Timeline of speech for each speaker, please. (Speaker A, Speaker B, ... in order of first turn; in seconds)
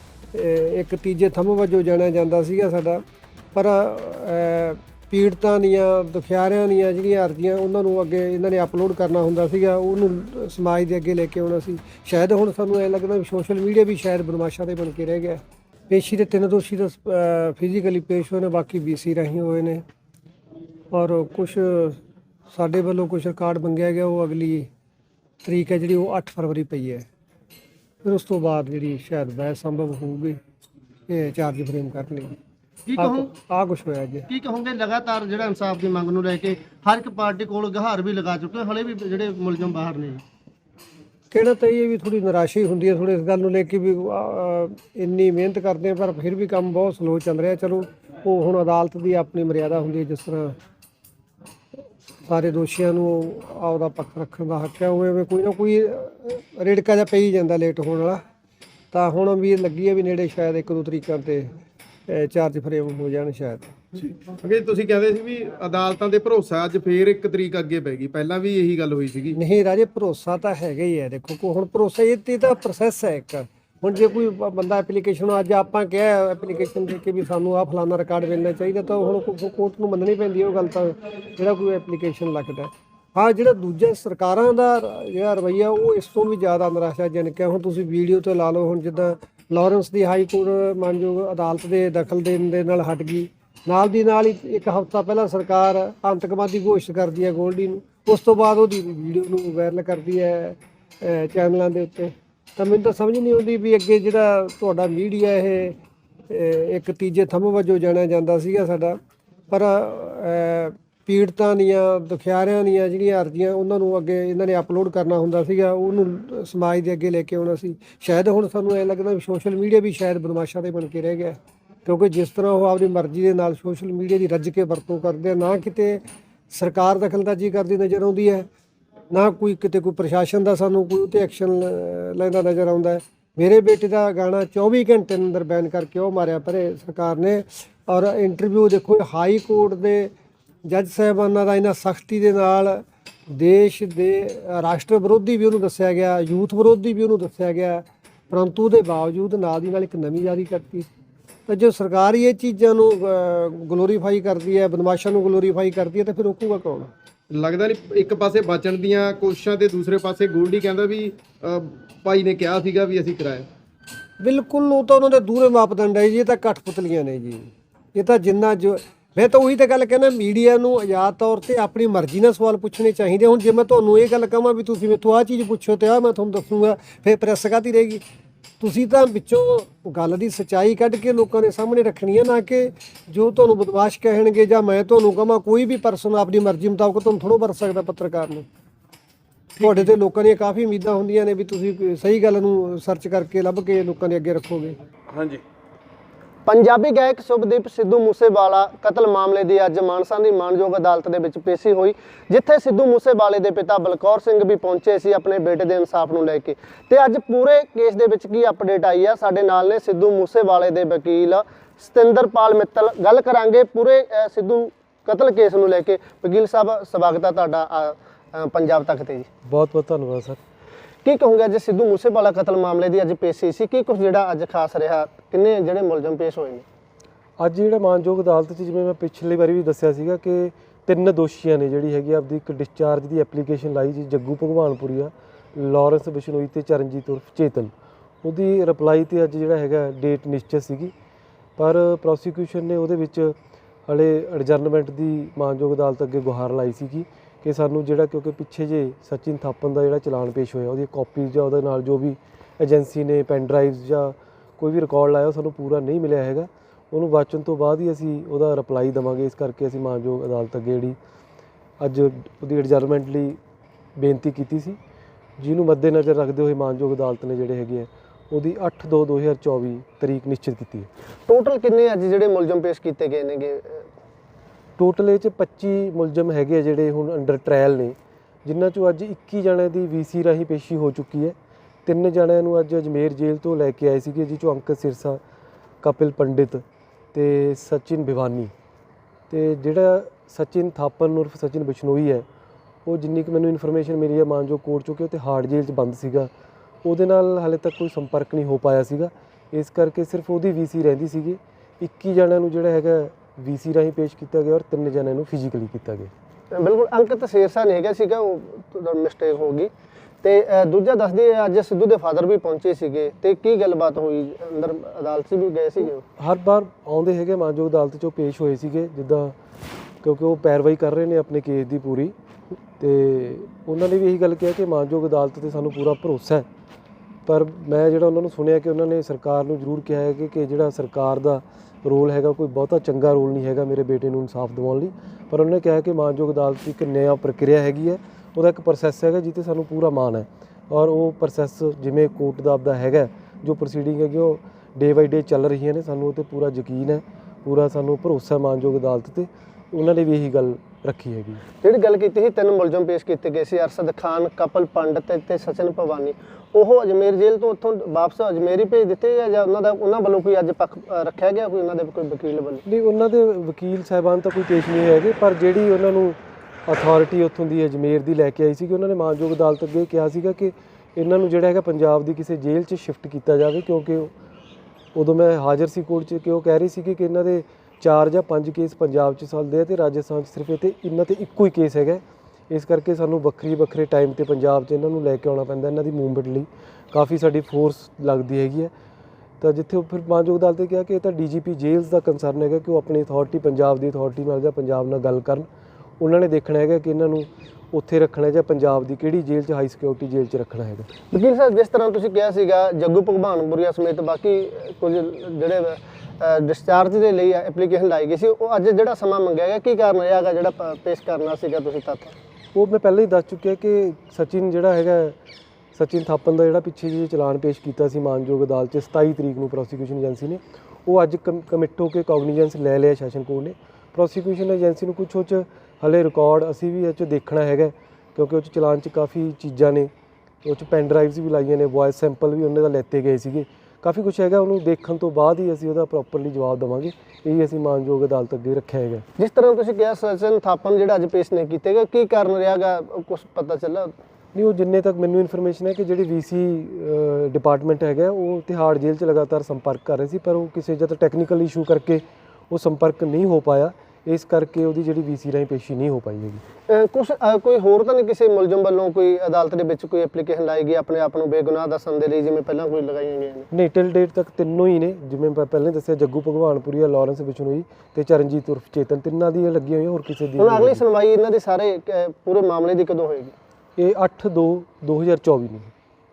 Speaker A: 0.3-3.0, 3.5-19.8, 20.9-22.0, 22.5-24.7, 25.4-27.1, 28.0-30.4, 31.1-32.4, 33.0-34.3, 41.3-50.5, 52.2-58.2, 58.9-61.5, 62.1-63.7, 69.3-105.8, 106.3-109.0, 109.5-128.5, 129.1-140.1, 140.7-150.9, 151.5-156.9, 164.2-178.0, 178.6-188.4, 189.6-194.8
Speaker B: 32.9-33.3, 34.3-40.2, 196.4-219.3, 221.0-226.6, 271.3-273.9, 306.5-309.7, 310.2-316.0, 351.6-362.6, 401.1-412.1, 439.2-443.9, 456.7-463.4, 470.4-473.3
Speaker C: 64.0-69.4, 157.3-163.5, 195.1-195.4
Speaker D: 219.5-220.4, 227.4-237.7, 238.2-240.9, 241.6-243.3, 243.9-260.9, 261.8-263.4, 264.0-264.8, 265.4-270.9, 274.8-281.3, 281.9-285.2, 285.8-288.5, 289.3-292.2, 292.9-296.3, 296.8-306.1, 316.2-319.3, 320.0-322.1, 322.8-326.4, 327.2-351.4, 362.6-374.1, 374.9-388.7, 389.4-395.4, 396.0-400.9, 412.5-415.1, 415.7-429.9, 430.4-439.1, 444.3-456.4, 463.5-470.8, 473.8-475.7